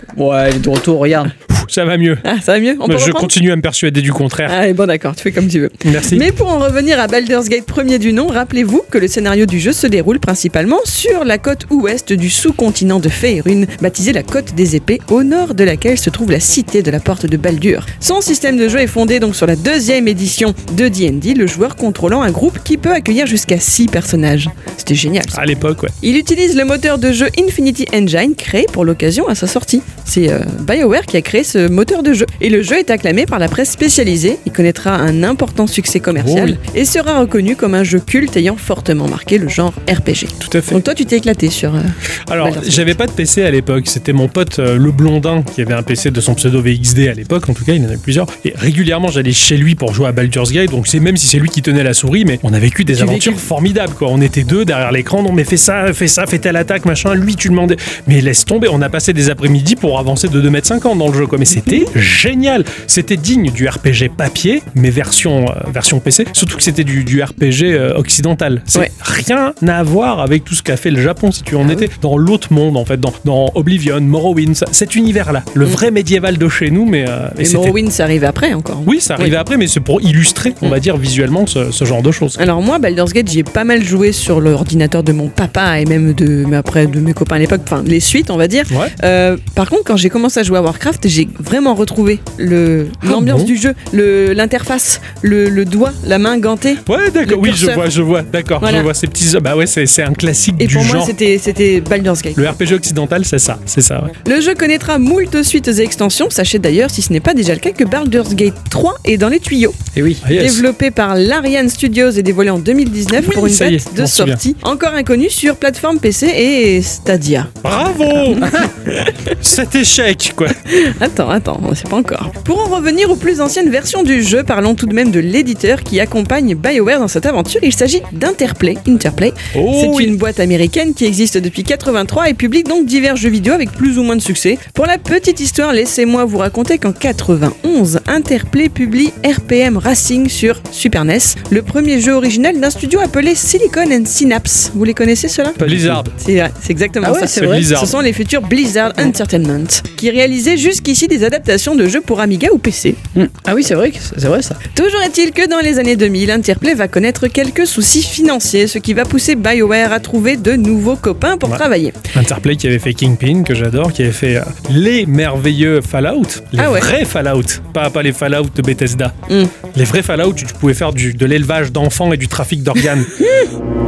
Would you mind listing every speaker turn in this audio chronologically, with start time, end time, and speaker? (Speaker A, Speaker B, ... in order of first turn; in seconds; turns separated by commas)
Speaker A: 0.1-1.3, Speaker B: 1.5-2.2, Speaker C: 2.2-3.3, Speaker B: 2.9-4.6, Speaker C: 4.5-25.4, Speaker B: 5.8-6.2, Speaker B: 25.3-25.9, Speaker C: 26.0-43.0, Speaker B: 36.2-36.6, Speaker B: 40.4-40.8, Speaker B: 42.3-77.8, Speaker C: 52.9-53.4, Speaker C: 77.4-79.4, Speaker B: 78.9-82.5, Speaker C: 82.4-97.9, Speaker B: 93.0-93.5, Speaker B: 96.9-101.1, Speaker C: 98.6-98.9, Speaker C: 100.6-102.6, Speaker B: 102.4-104.1, Speaker C: 104.2-109.8, Speaker A: 110.0-110.2, Speaker B: 110.2-110.6, Speaker C: 110.3-117.5, Speaker B: 113.2-114.4, Speaker B: 117.6-120.6, Speaker C: 120.7-153.0, Speaker B: 129.5-130.2, Speaker A: 145.6-146.1, Speaker B: 145.6-146.1, Speaker A: 147.0-147.7, Speaker B: 147.3-148.0, Speaker A: 153.2-154.6, Speaker C: 154.7-162.0, Speaker B: 161.5-169.2, Speaker C: 166.6-166.9, Speaker C: 169.3-169.5, Speaker B: 169.7-173.1